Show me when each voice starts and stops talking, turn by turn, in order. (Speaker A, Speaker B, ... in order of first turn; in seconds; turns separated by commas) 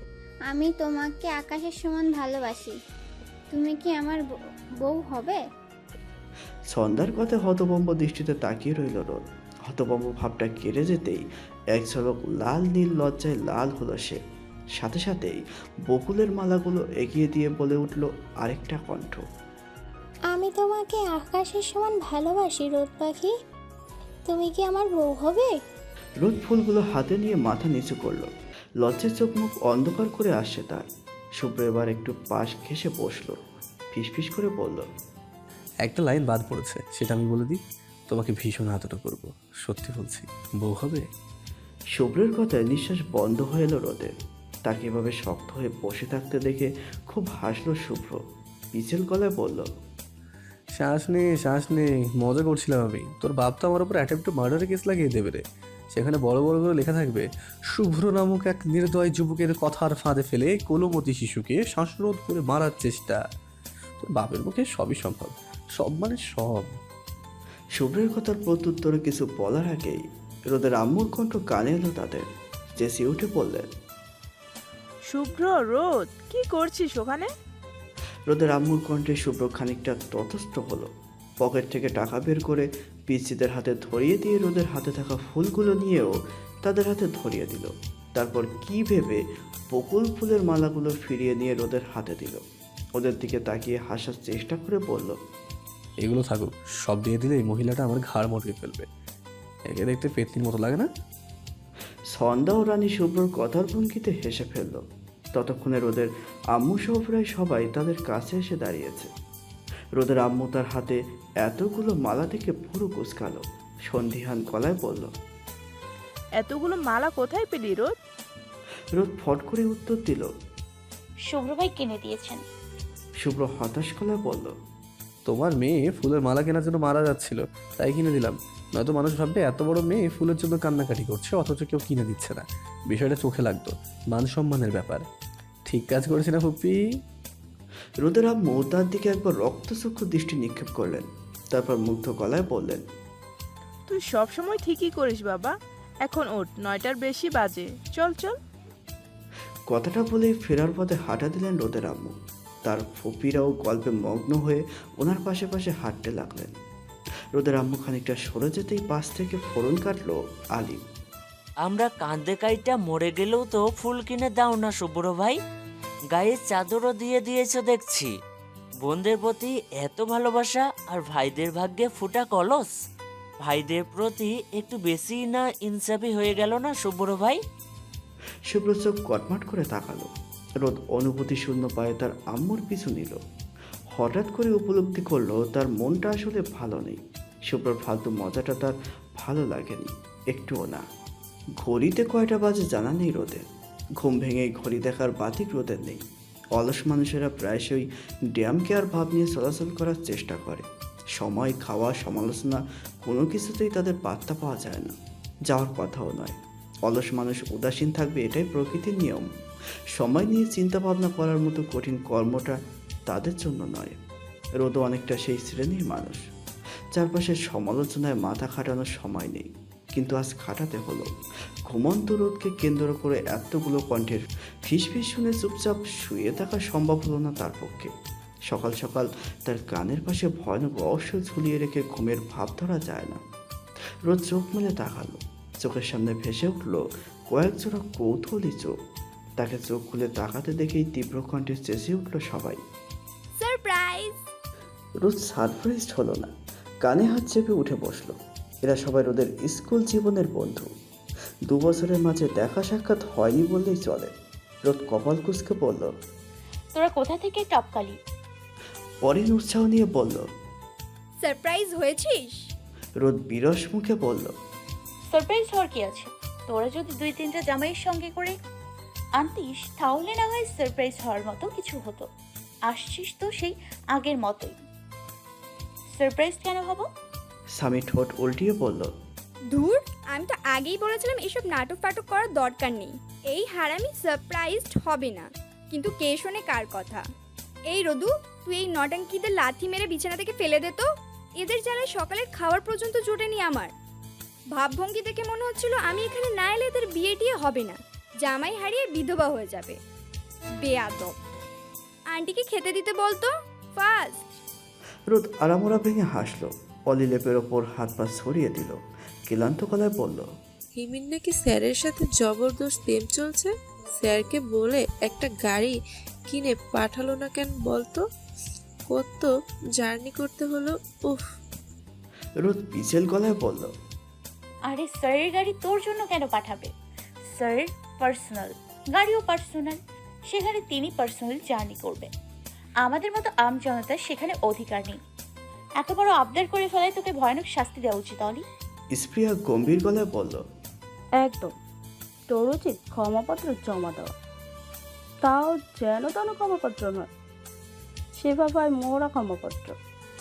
Speaker A: 0.5-2.7, Speaker A: 3.5-4.2, Speaker A: 4.8-5.4, Speaker B: 6.7-11.2, Speaker B: 11.8-14.2, Speaker B: 14.8-19.2, Speaker C: 20.3-23.3, Speaker C: 24.3-25.5, Speaker B: 26.2-28.3, Speaker B: 28.8-30.9, Speaker B: 31.4-33.4, Speaker B: 33.9-34.9, Speaker D: 35.9-41.1, Speaker B: 42.0-44.1, Speaker B: 44.7-48.2, Speaker B: 48.7-49.7, Speaker D: 50.8-63.2, Speaker D: 64.0-66.7, Speaker B: 67.8-72.2, Speaker B: 72.8-73.7, Speaker E: 75.1-77.3, Speaker B: 78.3-80.9, Speaker B: 81.4-89.2, Speaker B: 89.7-92.4, Speaker B: 93.0-95.2, Speaker D: 96.0-98.9, Speaker D: 99.7-100.9, Speaker B: 102.1-104.8, Speaker B: 105.3-109.1, Speaker B: 110.0-115.1, Speaker E: 116.3-118.0, Speaker B: 119.0-120.3, Speaker F: 121.3-122.4, Speaker B: 123.2-124.5, Speaker D: 125.3-135.1, Speaker D: 135.7-136.8, Speaker B: 138.0-142.8, Speaker E: 143.9-148.4, Speaker B: 149.7-156.5, Speaker B: 157.3-160.8, Speaker G: 161.7-165.4, Speaker G: 166.1-168.1, Speaker G: 168.8-172.7, Speaker G: 173.5-177.4, Speaker B: 178.5-180.1, Speaker B: 180.6-183.2, Speaker B: 184.0-190.8, Speaker B: 191.6-193.4, Speaker B: 194.0-196.0, Speaker B: 196.6-200.6, Speaker B: 201.2-204.9, Speaker B: 205.5-209.3, Speaker B: 210.0-212.6, Speaker B: 213.1-213.9, Speaker B: 214.6-216.2, Speaker B: 217.0-221.1, Speaker B: 221.7-227.9, Speaker B: 228.5-233.2, Speaker B: 234.1-238.7, Speaker B: 239.4-242.6, Speaker H: 243.3-244.3, Speaker B: 245.0-246.3, Speaker B: 246.8-250.7, Speaker B: 251.5-254.1, Speaker B: 254.7-255.9, Speaker F: 256.8-257.9, Speaker B: 259.1-260.2, Speaker H: 261.2-262.5, Speaker B: 263.0-264.3, Speaker F: 265.2-268.3, Speaker F: 269.2-272.0, Speaker F: 272.7-274.5, Speaker F: 276.0-276.8, Speaker B: 277.6-278.9, Speaker H: 279.5-287.0, Speaker H: 287.7-290.9, Speaker H: 291.4-293.7, Speaker H: 294.6-299.8, Speaker H: 300.6-301.1, Speaker H: 302.1-304.3, Speaker B: 305.1-310.3, Speaker I: 310.8-315.8, Speaker I: 316.3-318.1, Speaker I: 318.9-321.3, Speaker B: 322.4-323.7, Speaker F: 324.7-326.7, Speaker F: 327.4-328.5, Speaker F: 329.0-329.7, Speaker F: 330.4-332.1, Speaker F: 332.9-334.9, Speaker F: 335.8-338.4, Speaker B: 338.9-340.4, Speaker J: 341.2-341.5, Speaker J: 342.3-344.1, Speaker J: 345.2-347.1, Speaker J: 348.2-349.8